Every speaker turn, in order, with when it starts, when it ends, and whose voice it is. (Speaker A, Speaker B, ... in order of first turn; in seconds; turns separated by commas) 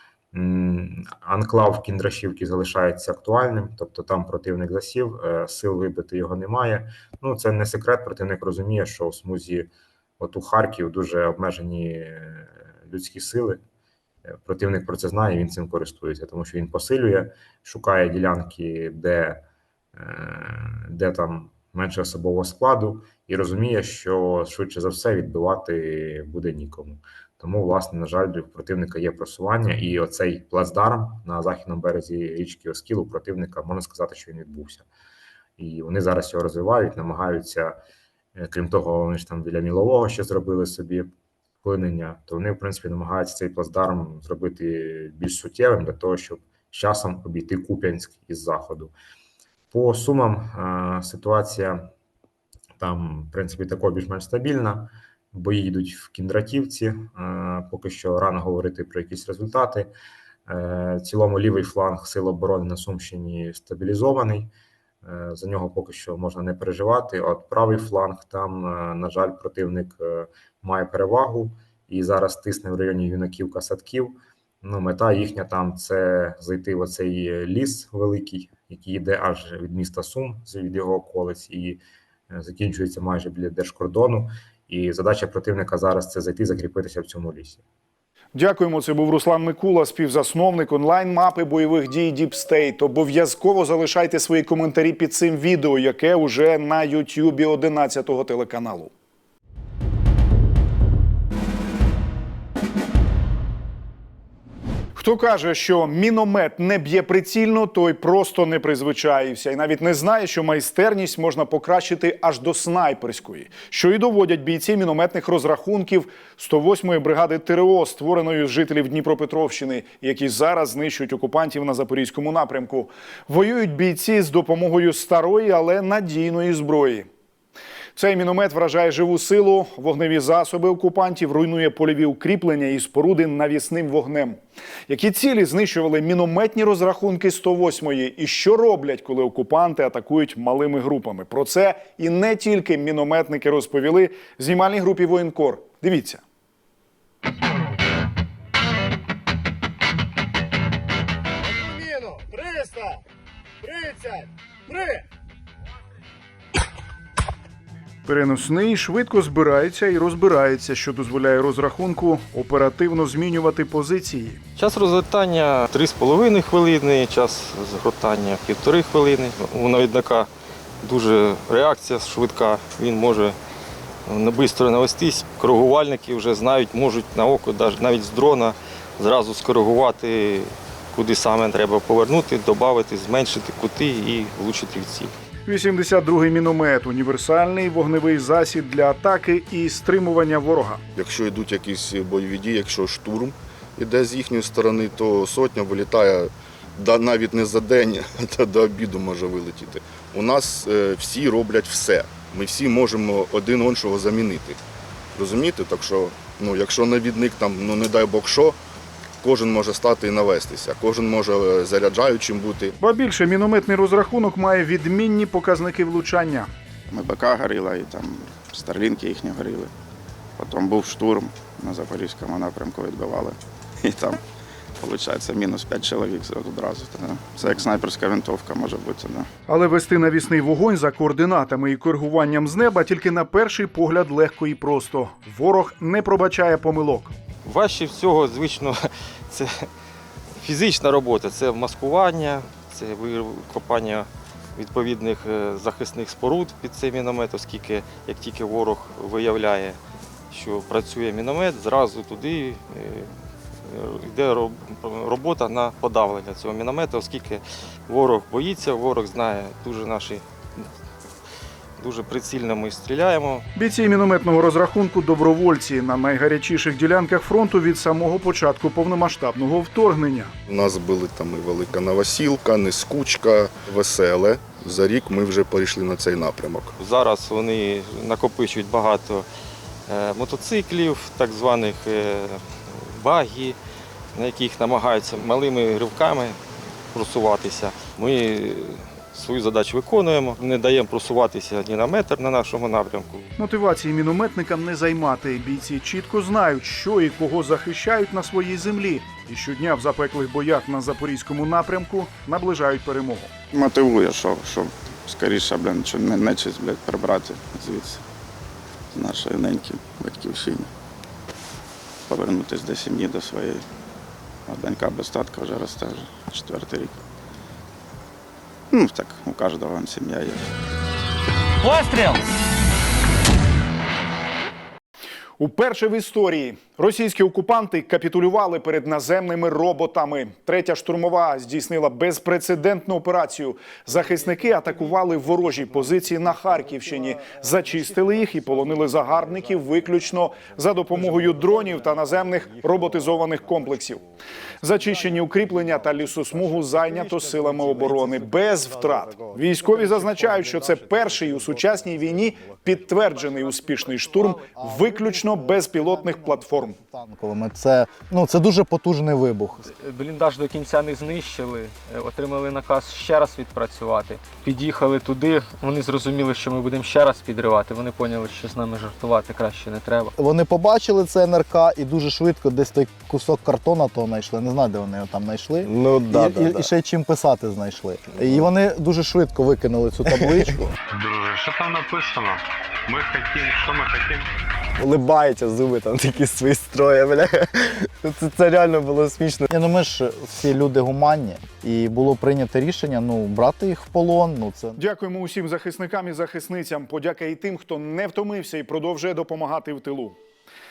Speaker A: 0.3-13.6, Speaker A: 14.3-19.4, Speaker A: 19.9-34.9, Speaker A: 35.6-37.8, Speaker A: 38.4-41.1, Speaker A: 41.6-48.9, Speaker A: 49.7-51.9, Speaker A: 52.8-59.9, Speaker A: 60.5-64.5, Speaker A: 65.0-87.6, Speaker B: 88.3-98.9, Speaker B: 105.0-127.1, Speaker B: 128.0-146.2, Speaker B: 158.1-164.4, Speaker C: 164.6-170.3, Speaker C: 170.8-173.4, Speaker C: 174.1-185.1, Speaker B: 185.5-190.8, Speaker D: 190.9-204.6, Speaker D: 205.2-208.6, Speaker D: 209.2-212.8, Speaker B: 212.8-216.5, Speaker E: 216.9-219.7, Speaker E: 220.4-224.2, Speaker E: 224.8-229.3, Speaker B: 229.5-237.1, Speaker C: 237.4-239.7, Speaker C: 240.4-249.8, Speaker C: 250.3-253.1, Speaker C: 253.6-260.7, Speaker C: 261.8-263.5, Speaker B: 263.6-270.3, Speaker D: 270.5-276.8, Speaker C: 276.8-279.3, Speaker C: 279.9-283.6, Speaker C: 284.1-286.4, Speaker C: 286.9-293.3, Speaker B: 293.4-303.3, Speaker E: 303.5-308.0, Speaker E: 308.9-310.7, Speaker E: 312.1-313.6, Speaker E: 314.5-317.0, Speaker E: 318.7-320.5, Speaker B: 325.4-344.1, Speaker B: 344.6-356.8, Speaker F: 354.2-359.7, Speaker G: 359.7-370.1, Speaker F: 370.2-380.6, Speaker H: 375.6-376.7, Speaker H: 378.1-378.5, Speaker H: 380.0-380.7, Speaker I: 380.9-384.3, Speaker H: 384.8-389.5, Speaker F: 389.5-394.8, Speaker B: 394.8-400.2